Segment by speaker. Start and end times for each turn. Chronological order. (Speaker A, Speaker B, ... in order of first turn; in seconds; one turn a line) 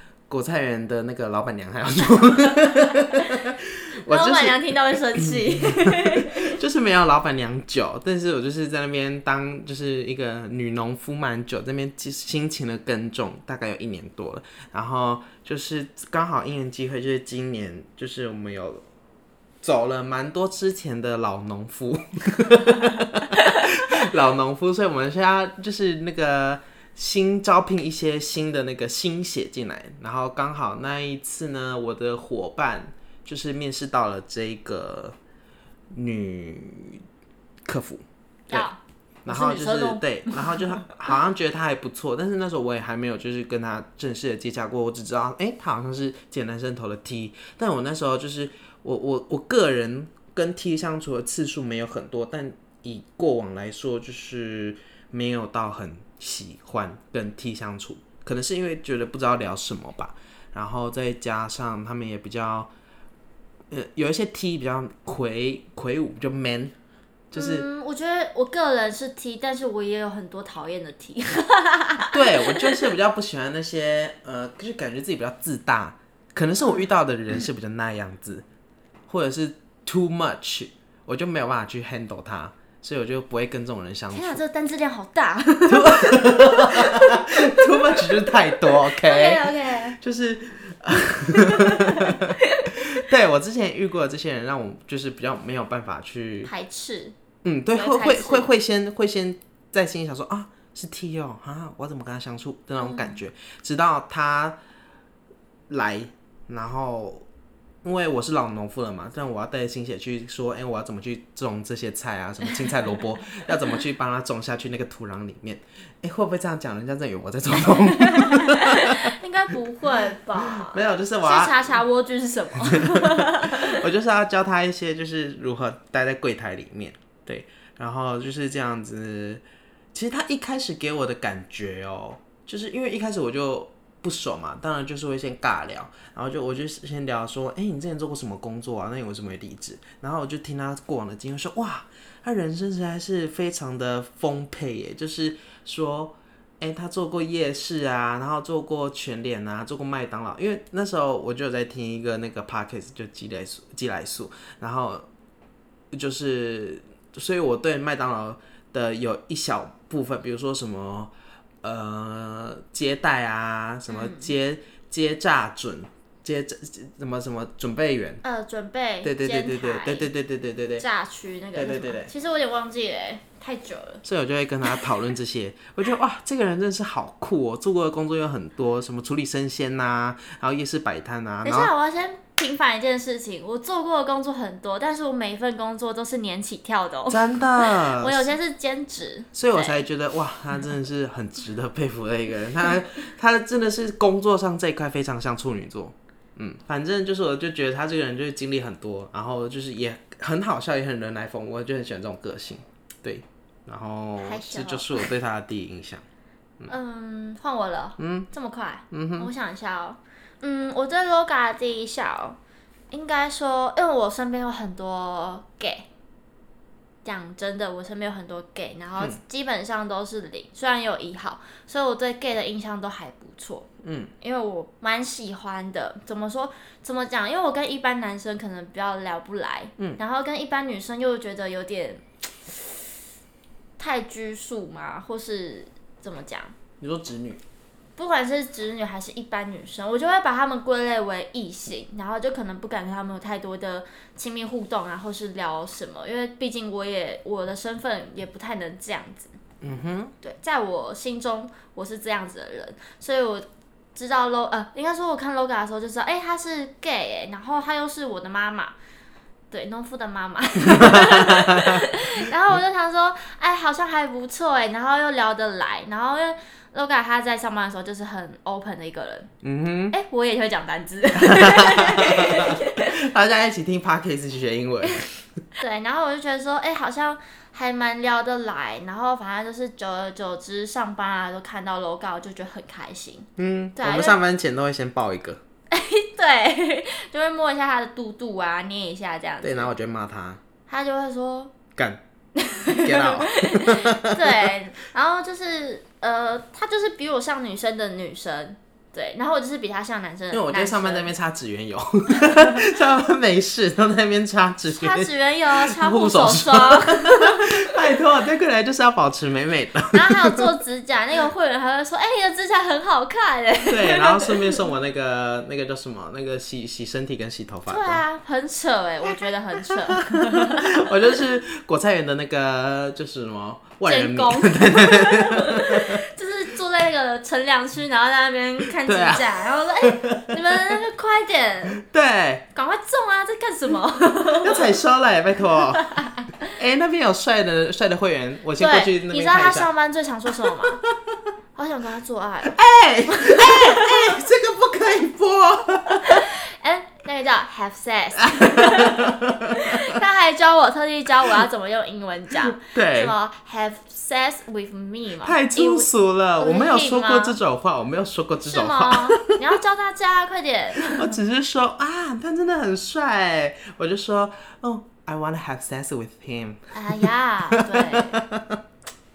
Speaker A: 0.3-4.6
Speaker B: 4.1-6.5
Speaker A: 5.2-18.8
Speaker A: 19.6-35.1
Speaker A: 35.9-37.0
Speaker A: 37.6-38.7
Speaker B: 38.5-40.7
Speaker A: 39.2-62.7
Speaker A: 63.7-66.7
Speaker A: 67.3-67.7
Speaker B: 67.3-72.8
Speaker A: 72.1-78.4
Speaker A: 79.1-84.4
Speaker B: 84.1-90.0
Speaker A: 85.7-96.5
Speaker B: 91.3-92.3
Speaker B: 96.4-97.1
Speaker A: 97.4-104.5
Speaker B: 97.7-98.5
Speaker B: 102.8-103.2
Speaker A: 105.7-107.2
Speaker A: 107.8-119.1
Speaker B: 117.6-123.8
Speaker A: 120.4-121.7
Speaker A: 122.6-129.4
Speaker A: 129.9-155.1
Speaker A: 155.9-161.1
Speaker A: 161.6-168.2
Speaker B: 163.9-164.3
Speaker B: 168.2-170.1
Speaker A: 169.0-170.8
Speaker B: 170.8-174.0
Speaker A: 171.6-172.1
Speaker A: 174.0-181.7
Speaker B: 181.4-189.8
Speaker A: 187.1-188.3
Speaker A: 189.3-206.0
Speaker B: 204.2-205.1
Speaker B: 206.7-212.4
Speaker A: 208.0-208.3
Speaker A: 208.9-209.3
Speaker B: 212.9-215.9
Speaker B: 217.0-223.7
Speaker A: 223.8-224.1
Speaker B: 224.2-232.9
Speaker B: 233.8-236.5
Speaker A: 236.8-237.4
Speaker B: 237.9-249.4
Speaker A: 249.6-250.1
Speaker B: 250.2-258.7
Speaker B: 259.5-269.3
Speaker A: 260.7-261.8
Speaker A: 269.4-269.9
Speaker B: 269.9-272.9
Speaker A: 271.2-275.2
Speaker B: 275.6-284.2
Speaker A: 283.4-285.4
Speaker B: 285.7-289.7
Speaker A: 289.4-290.4
Speaker B: 290.7-291.5
Speaker A: 291.8-292.0
Speaker B: 292.4-301.1
Speaker A: 292.8-294.5
Speaker A: 300.3-310.4
Speaker B: 304.7-307.8
Speaker B: 309.9-314.7
Speaker A: 313.7-318.0
Speaker B: 317.7-320.8
Speaker A: 319.8-326.0
Speaker B: 323.8-331.8
Speaker A: 328.8-330.6
Speaker A: 331.8-332.4
Speaker B: 332.5-334.8
Speaker A: 334.4-335.9
Speaker B: 335.7-336.5
Speaker A: 336.5-339.7
Speaker B: 338.6-340.8
Speaker B: 341.5-342.6
Speaker A: 342.5-346.3
Speaker B: 343.1-344.2
Speaker B: 346.0-357.4
Speaker A: 348.2-350.0
Speaker A: 352.4-353.1
Speaker A: 355.2-359.3
Speaker B: 358.4-361.1
Speaker A: 360.9-368.6
Speaker B: 366.7-368.2